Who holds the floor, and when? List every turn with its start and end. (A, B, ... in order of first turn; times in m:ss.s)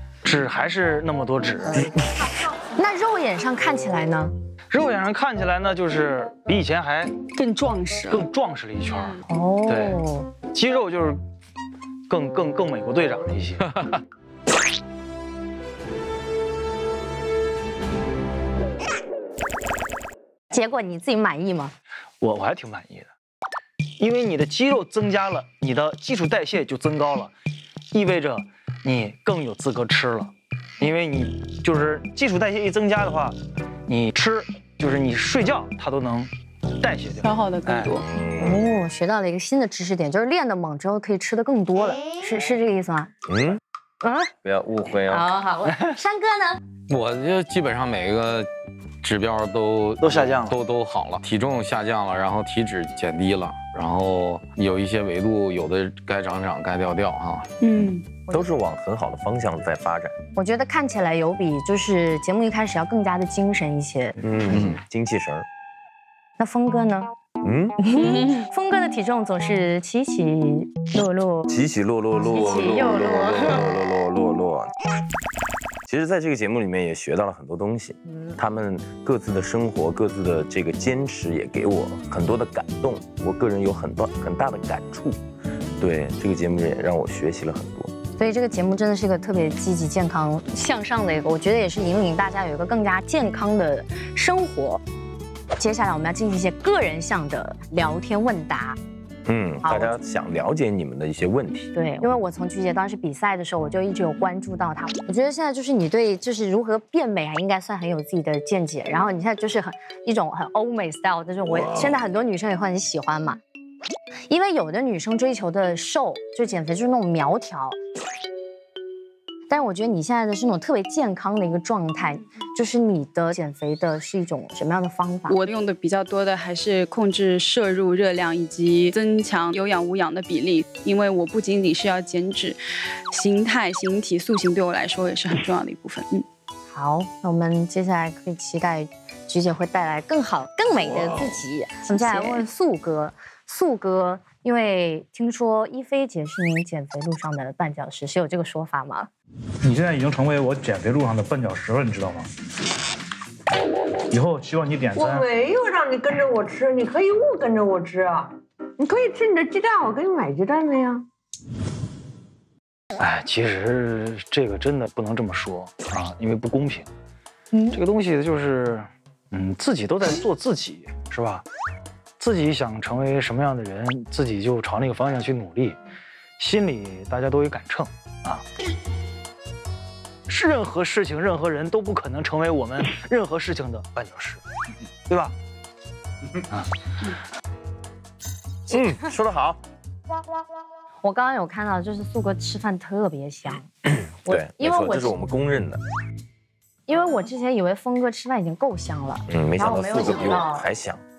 0:00.2-0:01.9 A
0:02.8-0:04.3 B
0:04.7-0:07.2 A
0:07.3-0:08.3 C
0:08.1-0:10.0 A
0:09.3-0:10.3 B
0:10.5-0:11.2 A
0:12.1-0:13.6 A
0:13.7-0:14.0 D
0:20.5-0:21.7 B
0:22.2-0:23.1 A
0:24.0-0:27.3 A
0:27.9-0:33.4 A
0:33.9-0:37.9 A
0:37.2-0:38.0 C
0:38.0-0:38.6 E
0:38.4-0:43.1 B
0:43.3-0:43.6 E
0:44.0-0:44.3 B
0:44.4-0:45.3 E
0:45.1-0:46.6 B
0:46.9-0:48.5 D
0:49.0-0:57.5 D
0:50.0-0:50.6 A
0:57.6-0:58.1 C
0:58.3-1:00.1 E
1:00.4-1:04.2 B
1:04.2-1:05.4 E
1:04.5-1:04.8 D
1:06.4-1:07.1 B
1:07.4-1:07.8 E
1:07.8-1:11.5 B
1:08.0-1:08.4 C
1:11.5-1:14.7 E
1:12.2-1:13.5 B
1:15.8-1:25.2 E
1:25.8-1:27.9 E
1:28.2-1:34.8 B
1:35.6-1:38.8 B
1:39.2-1:41.7 E
1:39.6-1:40.0 B
1:41.7-1:53.4 B
1:54.3-1:57.8 B
1:59.5-2:05.4 B
2:05.3-2:12.6 C
2:13.1-2:16.2 C
2:16.7-2:29.1 B
2:21.9-2:22.4 C
2:29.6-2:32.3 F
2:34.1-2:35.3 F
2:34.9-2:41.0 G
2:43.0-2:46.9 A
2:47.7-2:51.4 A
2:52.2-2:55.8 A
2:56.4-2:58.4 A
3:00.3-3:04.4 A
3:05.1-3:05.3 A
3:08.7-3:09.6 E
3:11.0-3:13.7 B
3:14.2-3:15.2 B
3:14.3-3:15.8 E
3:16.9-3:20.7 B
3:19.3-3:21.0 E